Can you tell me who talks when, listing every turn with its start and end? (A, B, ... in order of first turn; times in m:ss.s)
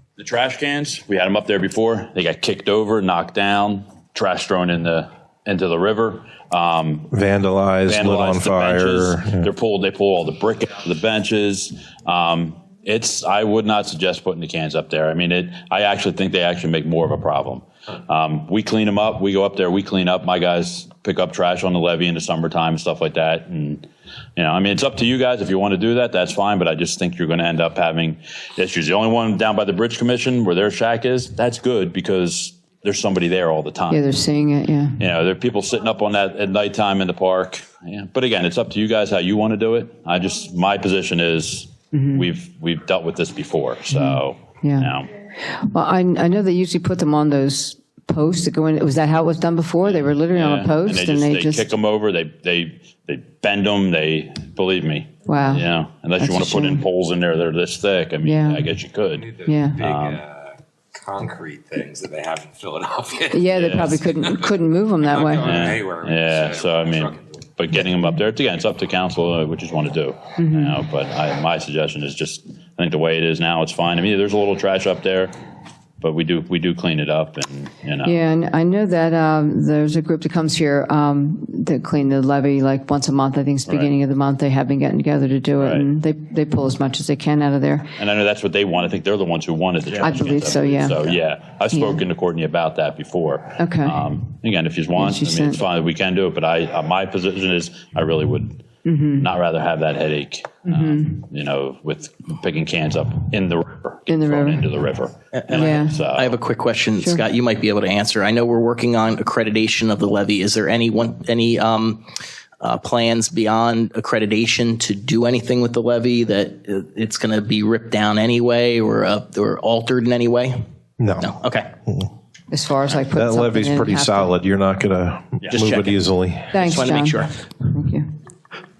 0:00.2-0:07.1 A
0:07.1-0:09.5 B
0:07.8-0:34.1 A
0:33.9-0:35.0 C
0:35.0-0:45.1 A
0:41.9-0:42.2 C
0:43.9-0:51.7 C
0:49.8-1:00.2 A
0:55.2-0:56.8 C
0:58.2-0:58.7 C
0:59.2-1:03.5 D
0:59.4-0:59.8 C
1:03.3-1:05.7 C
1:03.5-1:04.0 A
1:05.0-1:07.2 D
1:05.4-1:15.3 A
1:10.4-1:10.8 C
1:16.0-1:18.2 A
1:18.0-1:28.0 C
1:23.7-1:23.9 A
1:25.6-1:25.9 A
1:28.0-1:38.6 A
1:30.0-1:31.1 C
1:31.7-1:32.0 C
1:33.6-1:34.1 C
1:35.0-1:35.6 C
1:38.8-1:39.3 C
1:39.2-1:46.4 A
1:40.7-1:41.1 C
1:44.1-1:44.7 C
1:45.3-1:52.0 E
1:45.5-1:46.0 C
1:52.6-2:00.6 E
2:01.0-2:01.3 B
2:01.2-2:01.7 E
2:02.5-2:04.3 C
2:03.1-2:06.8 B
2:05.4-2:05.7 A
2:05.5-2:05.9 E
2:06.5-2:08.1 C
2:06.5-2:07.3 E